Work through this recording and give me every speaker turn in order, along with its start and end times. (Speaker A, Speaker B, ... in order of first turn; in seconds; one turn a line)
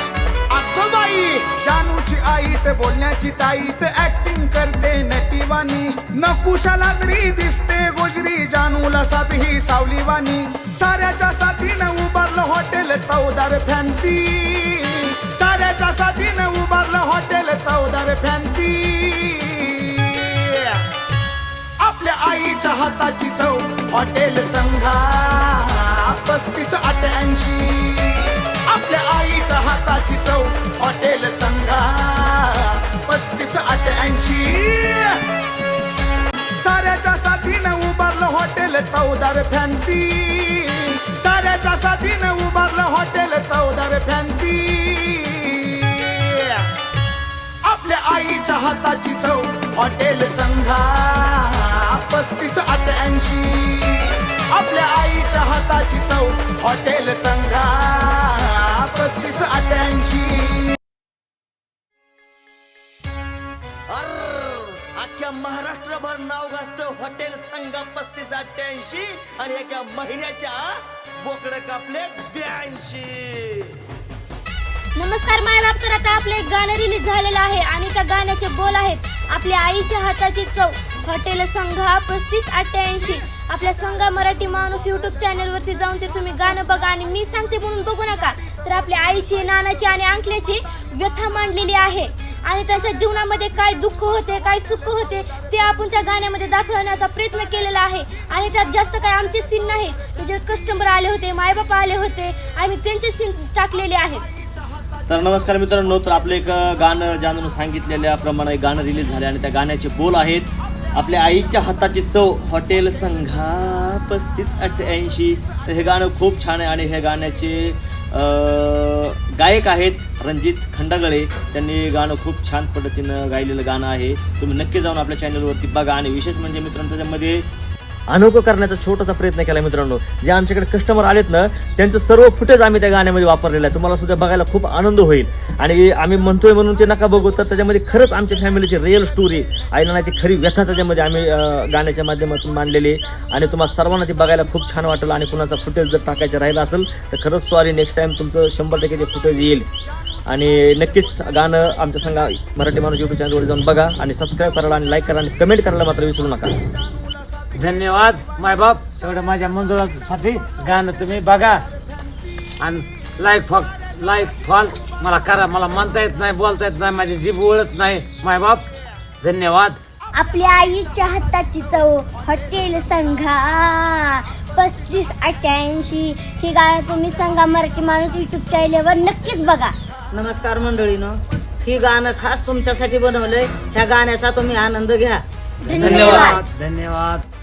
Speaker A: 0.5-20.8
Speaker A: 21.8-35.2
Speaker A: 36.6-46.7
Speaker A: 47.6-60.7
Speaker B: 63.9-70.7
Speaker B: 71.2-73.7
Speaker C: 75.0-104.2
Speaker B: 105.1-127.5
Speaker B: 128.1-149.7
Speaker B: 150.3-156.6
Speaker D: 157.6-161.6
Speaker D: 162.6-168.6
Speaker D: 169.2-169.8
Speaker E: 170.1-179.7
Speaker F: 180.1-185.2
Speaker E: 185.7-186.4
Speaker D: 185.7-187.2
Speaker F: 185.8-186.3
Speaker A: 185.8-186.3